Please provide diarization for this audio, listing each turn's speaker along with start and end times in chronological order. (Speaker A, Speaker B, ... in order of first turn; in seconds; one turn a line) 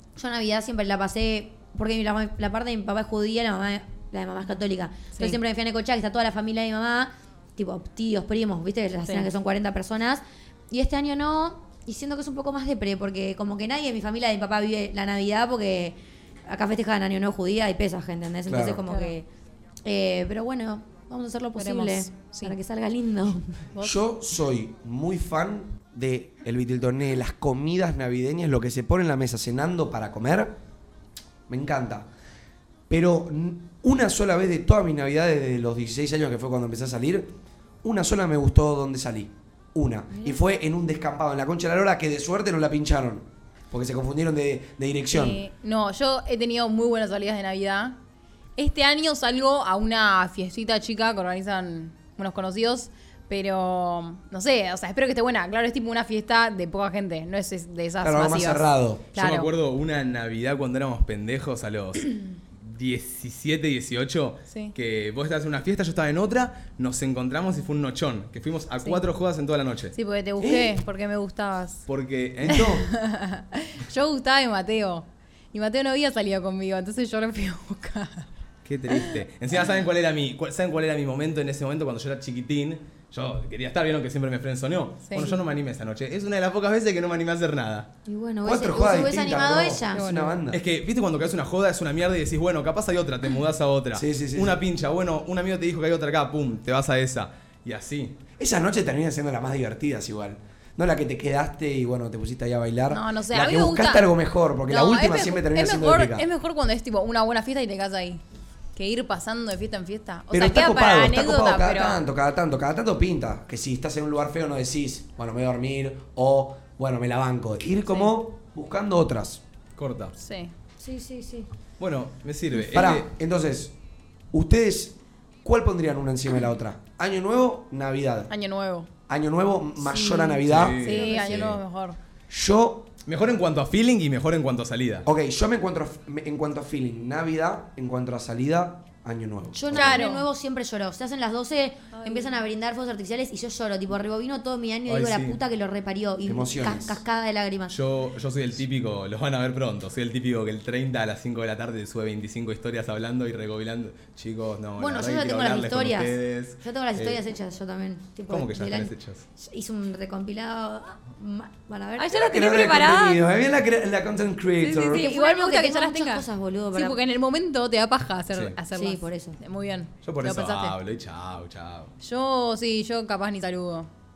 Speaker A: 0.1-15.9
Speaker A: 16.5-19.2
Speaker B: 18.5-18.8
Speaker C: 18.9-19.1
Speaker A: 19.8-23.5
Speaker C: 21.6-22.6
Speaker B: 23.8-30.5
Speaker B: 31.5-32.1
Speaker B: 32.9-37.3
Speaker B: 37.8-45.4
Speaker C: 45.1-48.0
Speaker C: 48.6-59.5
Speaker B: 58.0-59.1
Speaker D: 59.1-69.9
Speaker C: 64.5-64.7
Speaker C: 69.9-71.8
Speaker B: 70.4-70.8
Speaker D: 71.9-72.8
Speaker B: 72.4-72.8
Speaker C: 72.5-78.3
Speaker D: 78.6-87.9
Speaker C: 85.0-85.4
Speaker A: 88.0-90.3
Speaker B: 88.4-90.6
Speaker C: 89.9-90.3
Speaker D: 90.5-98.2
Speaker B: 93.9-94.6
Speaker B: 98.4-106.2
Speaker C: 102.9-104.1
Speaker C: 104.7-108.2
Speaker C: 108.7-112.0
Speaker B: 110.3-119.4
Speaker D: 119.8-120.1
Speaker C: 120.2-120.5
Speaker A: 120.8-121.5
Speaker D: 121.8-123.1
Speaker B: 122.6-123.7
Speaker B: 124.3-128.3
Speaker C: 128.3-128.9
Speaker B: 129.1-130.8
Speaker A: 129.8-131.5
Speaker D: 130.4-131.6
Speaker C: 130.8-132.0
Speaker B: 132.3-132.9
Speaker D: 133.1-135.1
Speaker B: 135.0-140.0
Speaker A: 139.5-147.7
Speaker C: 139.7-140.2
Speaker C: 141.9-142.3
Speaker D: 144.9-145.4
Speaker B: 146.2-147.0
Speaker D: 147.7-157.2
Speaker A: 154.8-162.2
Speaker D: 158.3-159.2
Speaker C: 162.0-163.2
Speaker B: 162.1-165.1
Speaker C: 164.6-170.7
Speaker A: 164.8-167.0
Speaker A: 168.7-169.4
Speaker D: 170.0-171.9
Speaker C: 172.0-173.9